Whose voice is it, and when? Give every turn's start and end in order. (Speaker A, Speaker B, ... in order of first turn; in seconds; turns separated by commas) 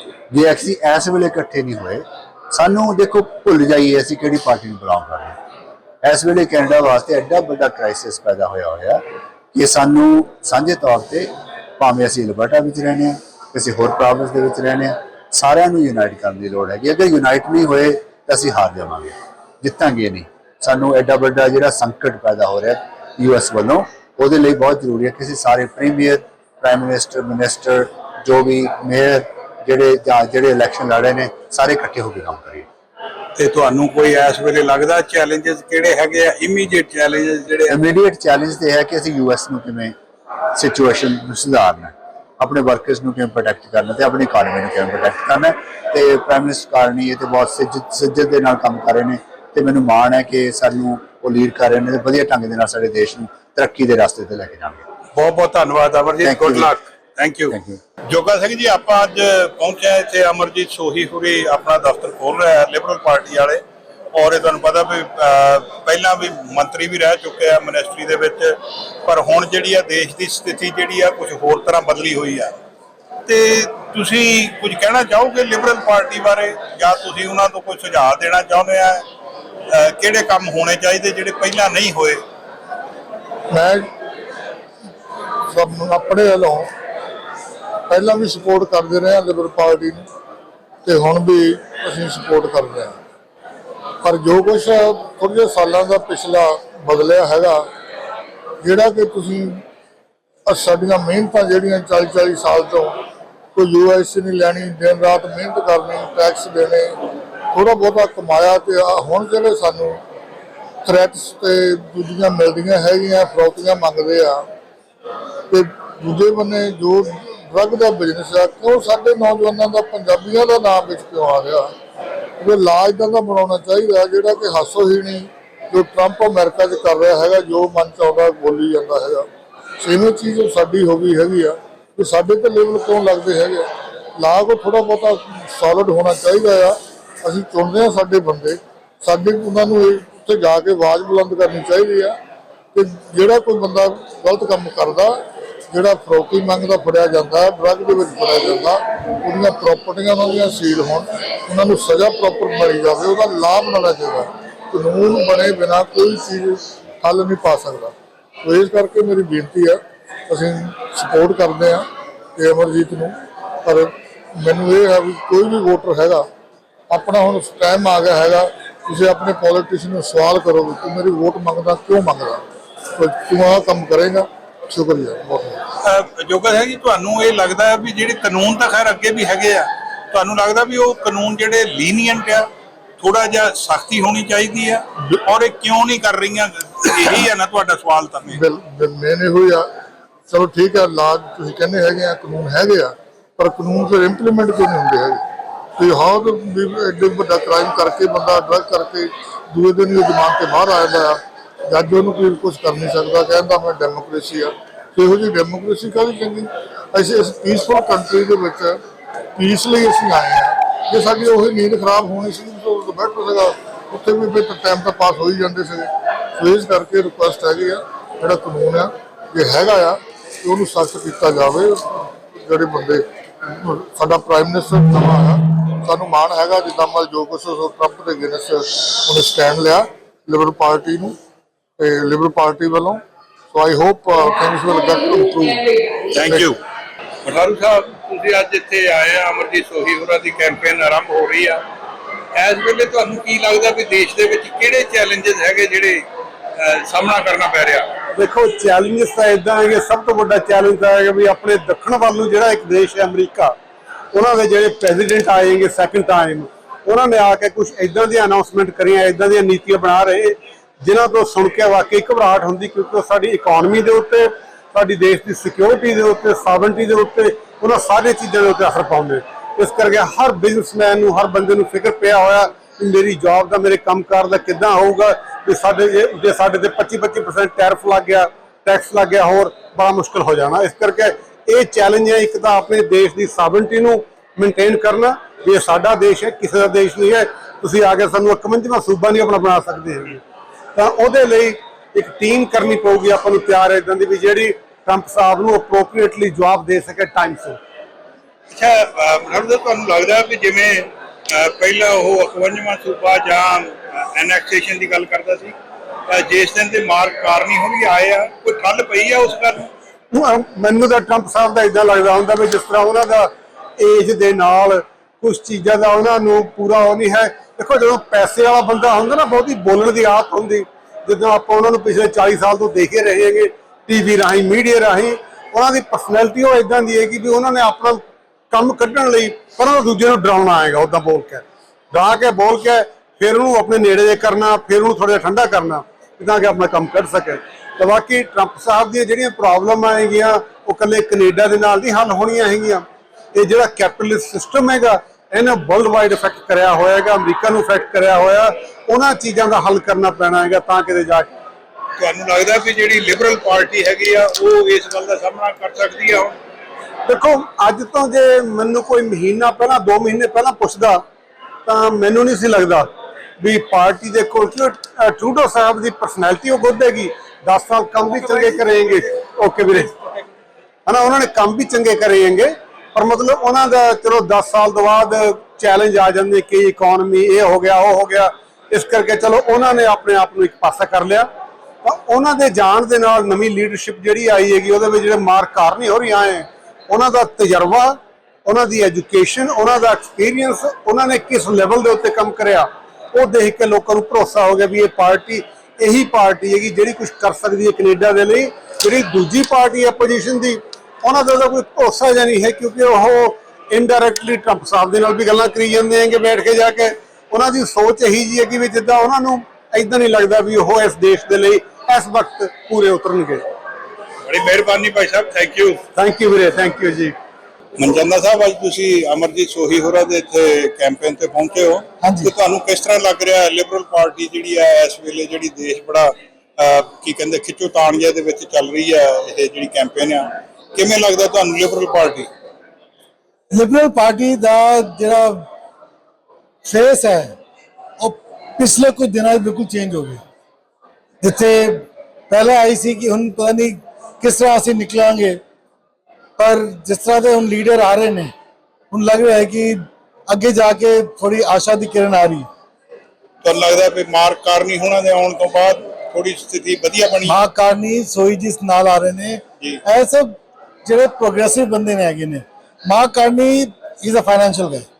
Speaker A: 0.3-5.4, Speaker A: 6.0-32.7, Speaker B: 33.4-37.8, Speaker A: 37.7-40.0, Speaker A: 40.5-54.9, Speaker B: 55.1-57.5, Speaker A: 56.2-56.7, Speaker A: 57.5-57.8, Speaker B: 58.1-63.6, Speaker B: 64.1-72.6, Speaker B: 73.3-79.0, Speaker B: 79.7-82.2, Speaker C: 83.5-83.9, Speaker C: 85.5-86.7, Speaker C: 87.9-90.1, Speaker C: 90.8-93.0, Speaker C: 94.0-97.6, Speaker C: 98.6-99.6, Speaker C: 100.5-103.0, Speaker C: 103.5-107.0, Speaker C: 107.5-110.0, Speaker C: 110.8-114.5, Speaker C: 115.5-121.7, Speaker C: 122.4-129.3, Speaker C: 129.8-142.2, Speaker C: 142.7-145.2, Speaker C: 145.7-166.3, Speaker C: 166.9-172.4, Speaker C: 173.0-175.6, Speaker B: 175.8-182.5, Speaker B: 183.0-188.4, Speaker C: 188.3-189.7, Speaker C: 190.3-195.2, Speaker C: 195.8-208.8, Speaker C: 209.4-231.2, Speaker C: 231.8-235.7, Speaker B: 236.1-236.6, Speaker C: 236.3-236.5, Speaker B: 237.2-241.6, Speaker B: 242.4-246.0, Speaker B: 246.6-247.9, Speaker D: 248.2-253.6, Speaker D: 254.1-290.2, Speaker D: 290.8-297.6, Speaker B: 298.5-305.6, Speaker B: 306.1-309.7, Speaker D: 310.1-351.3, Speaker B: 352.0-356.4, Speaker D: 357.1-361.0, Speaker D: 361.7-369.9, Speaker D: 370.9-381.3, Speaker D: 381.8-413.5, Speaker B: 414.2-415.8, Speaker D: 415.9-417.2, Speaker B: 417.8-432.3, Speaker E: 422.0-422.3, Speaker E: 433.5-435.5, Speaker E: 436.6-437.4, Speaker E: 438.0-440.2, Speaker E: 441.2-445.4, Speaker E: 446.4-448.3, Speaker E: 448.9-452.5, Speaker B: 453.4-457.4, Speaker E: 457.2-464.9